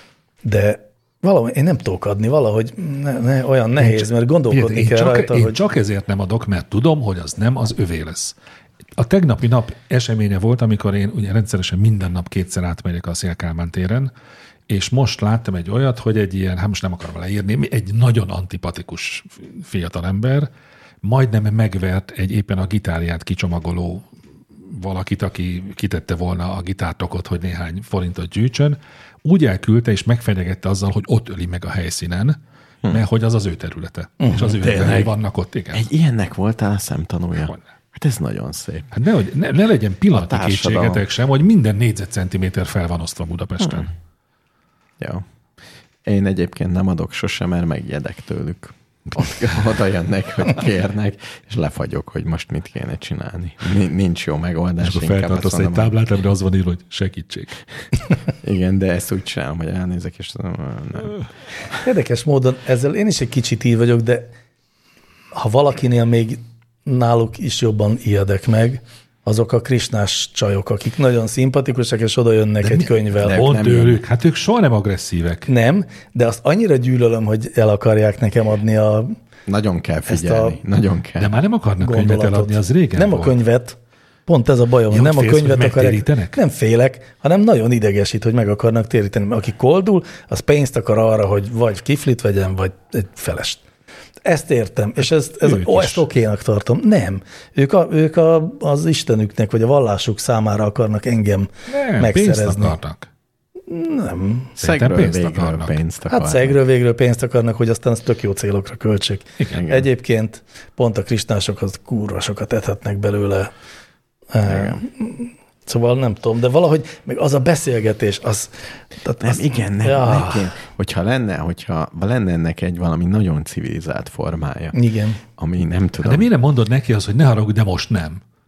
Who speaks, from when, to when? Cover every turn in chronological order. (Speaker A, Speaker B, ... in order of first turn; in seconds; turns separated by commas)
Speaker A: 0.4-5.6, Speaker B: 3.8-8.3, Speaker B: 9.0-14.1, Speaker B: 14.7-20.5, Speaker B: 21.0-24.1, Speaker B: 24.6-35.8, Speaker A: 34.2-34.6, Speaker C: 34.3-35.1, Speaker C: 35.7-38.9, Speaker B: 38.9-43.9, Speaker C: 40.1-41.0, Speaker C: 43.6-43.9, Speaker C: 45.0-45.2, Speaker C: 46.0-55.9, Speaker B: 54.8-57.6, Speaker C: 58.4-61.2, Speaker A: 61.8-64.3, Speaker A: 65.3-73.4, Speaker B: 72.6-75.5, Speaker C: 73.2-74.0, Speaker A: 75.5-79.2, Speaker C: 79.5-81.4, Speaker A: 80.1-80.6, Speaker B: 81.2-83.4, Speaker A: 81.8-93.6, Speaker B: 84.9-86.4, Speaker A: 94.2-102.8, Speaker B: 95.4-96.0, Speaker B: 101.7-103.1, Speaker A: 103.7-104.5, Speaker B: 104.6-105.8, Speaker C: 104.6-106.6, Speaker A: 106.1-113.5, Speaker C: 109.5-109.8, Speaker A: 114.3-120.5, Speaker C: 114.4-114.8, Speaker C: 119.2-126.3, Speaker A: 124.7-125.2, Speaker B: 126.0-128.2